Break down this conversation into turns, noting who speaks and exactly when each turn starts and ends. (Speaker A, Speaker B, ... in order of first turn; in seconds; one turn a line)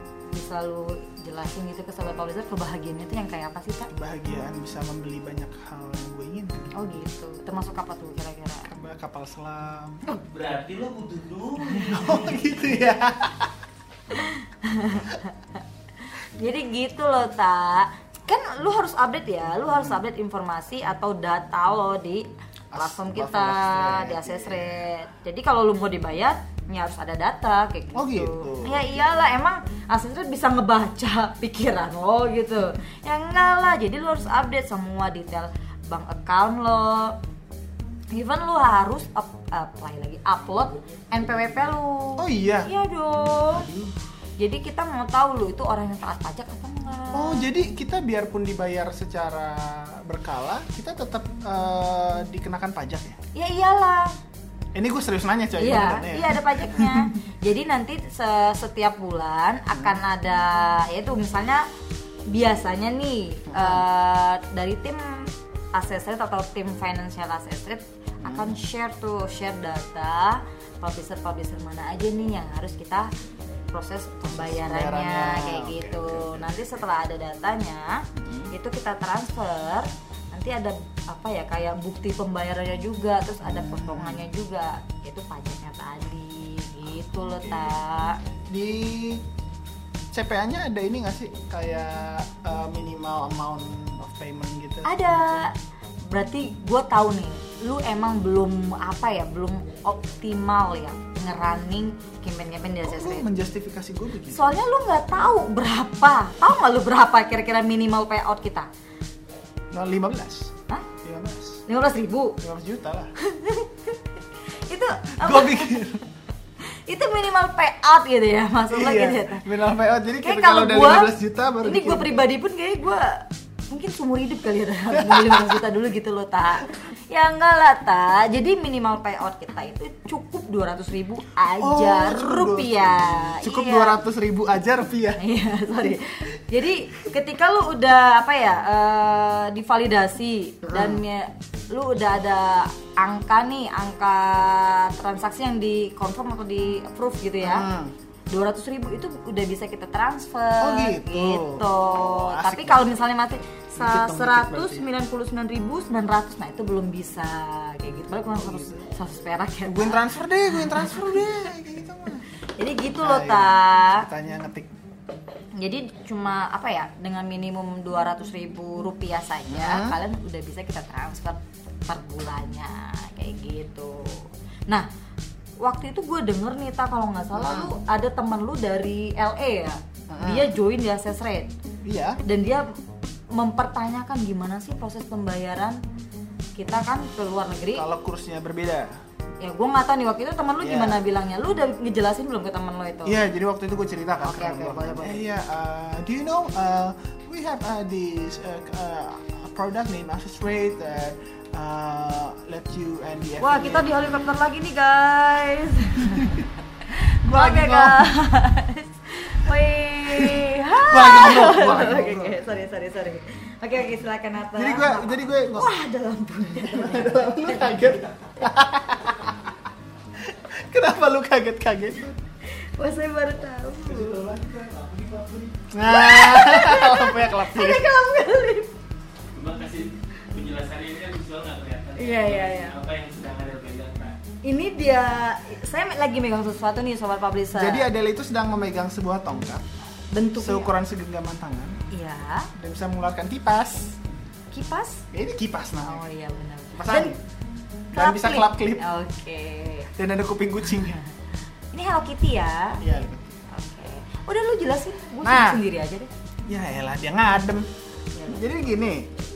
Speaker A: 0.3-3.9
Speaker B: 3.9-6.7
Speaker A: 6.7-8.7
Speaker B: 8.7-10.0
Speaker C: 10.2-12.5
Speaker B: 11.8-13.5
Speaker A: 14.1-37.2
Speaker B: 19.7-20.0
Speaker B: 22.7-24.8
Speaker B: 27.9-28.9
Speaker A: 38.1-43.7
Speaker B: 42.2-42.7
Speaker B: 43.5-43.9
Speaker A: 44.4-47.5
Speaker B: 47.1-53.2
Speaker A: 53.3-54.1
Speaker B: 54.7-57.1
Speaker A: 55.6-61.6
Speaker A: 62.3-73.1
Speaker B: 63.5-63.8
Speaker B: 68.2-68.5
Speaker A: 73.7-88.2
Speaker B: 74.3-76.6
Speaker B: 78.2-78.5
Speaker B: 83.4-84.2
Speaker B: 88.5-89.2
Speaker B: 90.1-95.0
Speaker A: 94.8-95.5
Speaker A: 96.1-103.3
Speaker B: 102.8-104.5
Speaker A: 104.3-108.7
Speaker B: 109.7-111.6
Speaker A: 111.7-112.4
Speaker B: 112.4-113.1
Speaker A: 113.2-114.0
Speaker A: 114.6-115.7
Speaker B: 115.2-116.0
Speaker A: 116.7-119.4
Speaker B: 118.7-122.2
Speaker A: 120.2-121.1
Speaker A: 121.6-134.0
Speaker B: 124.9-125.6
Speaker B: 131.6-135.2
Speaker A: 135.2-147.7
Speaker B: 140.6-141.0
Speaker B: 147.4-147.9
Speaker A: 148.3-160.0
Speaker B: 150.6-152.9
Speaker B: 153.8-154.8
Speaker B: 158.2-158.9
Speaker B: 159.6-162.2
Speaker A: 160.6-161.2
Speaker A: 162.6-164.0
Speaker B: 163.0-164.7
Speaker A: 165.6-174.9
Speaker B: 169.5-170.0
Speaker A: 175.6-181.5
Speaker B: 177.3-177.7
Speaker B: 180.1-180.5
Speaker B: 181.8-182.2
Speaker A: 182.2-182.7
Speaker A: 183.3-185.8
Speaker A: 186.6-187.8
Speaker B: 187.7-188.9
Speaker A: 189.4-193.2
Speaker B: 190.6-191.0
Speaker B: 193.0-204.1
Speaker A: 194.2-195.2
Speaker A: 203.4-217.9
Speaker B: 206.1-206.4
Speaker B: 207.2-208.1
Speaker B: 210.1-212.4
Speaker B: 214.6-215.7
Speaker B: 216.6-219.5
Speaker B: 220.2-222.2
Speaker A: 222.5-224.2
Speaker B: 223.9-224.6
Speaker C: 224.0-225.7
Speaker B: 225.7-227.9
Speaker A: 225.8-228.7
Speaker C: 229.3-234.2
Speaker A: 232.0-232.7
Speaker A: 234.4-237.9
Speaker B: 237.5-239.7
Speaker A: 240.1-240.7
Speaker B: 240.4-241.8
Speaker A: 241.9-242.5
Speaker B: 242.6-244.0
Speaker A: 244.5-245.1
Speaker B: 245.1-246.1
Speaker A: 245.8-247.1
Speaker B: 246.7-247.2
Speaker B: 247.9-248.8
Speaker A: 247.9-249.9
Speaker B: 249.9-251.0
Speaker A: 251.7-252.8
Speaker B: 252.8-253.4
Speaker A: 253.5-256.1
Speaker B: 255.2-255.6
Speaker B: 256.5-257.7
Speaker A: 258.1-258.4
Speaker B: 258.2-259.1